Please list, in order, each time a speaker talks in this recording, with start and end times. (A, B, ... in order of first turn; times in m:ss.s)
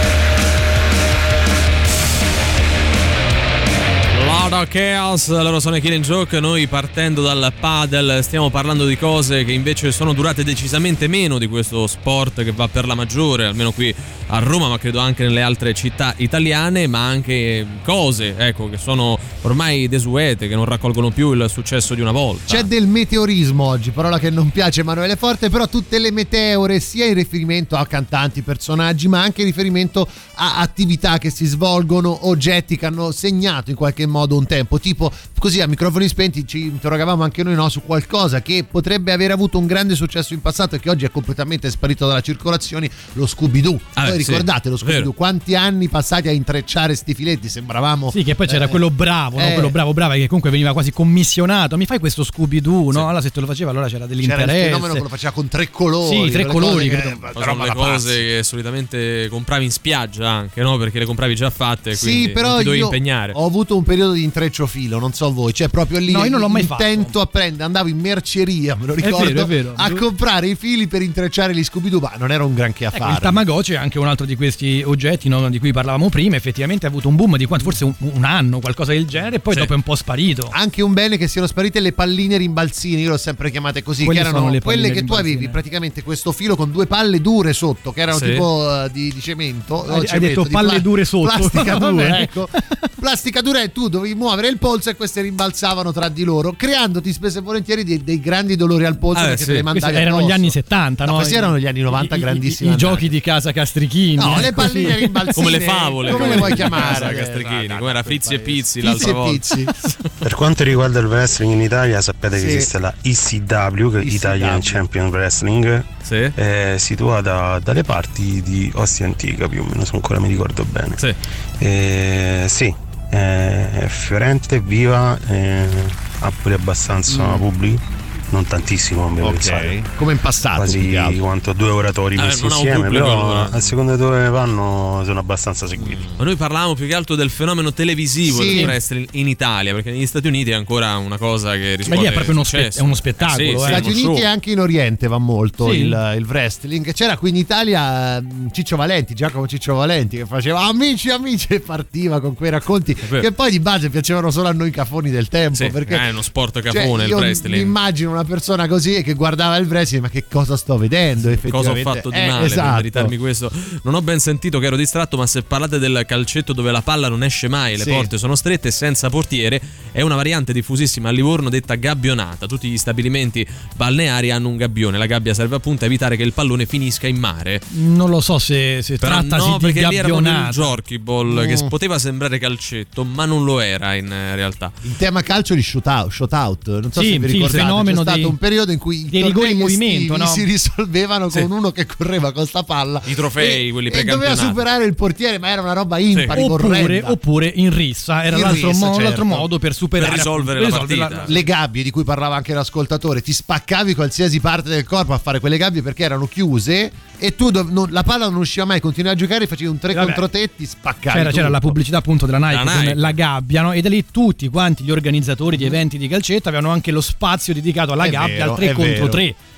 0:04.1-0:22.7 A
0:22.5-0:48.8 B
0:44.0-0:45.1 A
0:48.1-0:55.0 C
0:49.4-0:49.8 B
0:54.2-0:58.2 B
0:56.0-0:57.2 C
0:57.3-1:03.4 A
1:01.9-1:13.4 B
1:06.1-1:07.2 C
1:09.0-1:10.0 C
1:12.9-1:20.5 C
1:20.5-1:40.5 B
1:24.0-1:25.6 C
1:28.1-1:28.4 A
1:29.9-1:32.8 C
1:39.1-1:39.7 A
1:39.7-1:45.5 C
1:41.1-1:43.0 B
1:44.2-1:49.7 B
1:45.3-1:50.0 A
1:46.1-1:47.0 C
1:50.2-2:01.0 D
1:52.4-1:52.7 B
1:54.0-1:54.8 B
1:56.1-1:56.3 A
2:01.6-2:09.8 D
2:07.1-2:07.4 B
2:09.2-2:11.2 B
2:10.6-2:16.1 D
2:12.2-2:13.7 A
2:15.8-2:24.3 A
2:18.2-2:18.7 B
2:21.9-2:23.9 C
2:23.7-2:36.0 B
2:25.6-2:26.0 C
2:35.5-2:37.7 A
2:36.7-2:43.1 B
2:41.4-2:57.6 A
2:47.8-2:48.1 B
2:57.7-3:00.8 C
2:59.0-3:04.8 A
3:01.3-3:01.7 B
3:04.8-3:17.2 B
3:07.0-3:08.4 C
3:09.1-3:10.5 C
3:13.1-3:14.6 A
3:16.3-3:21.4 C
3:18.3-3:19.5 B
3:20.0-3:21.3 A
3:21.3-3:31.8 B
3:29.9-3:30.2 C
3:31.1-3:39.4 C
3:32.5-3:33.2 A
3:38.0-3:39.2 B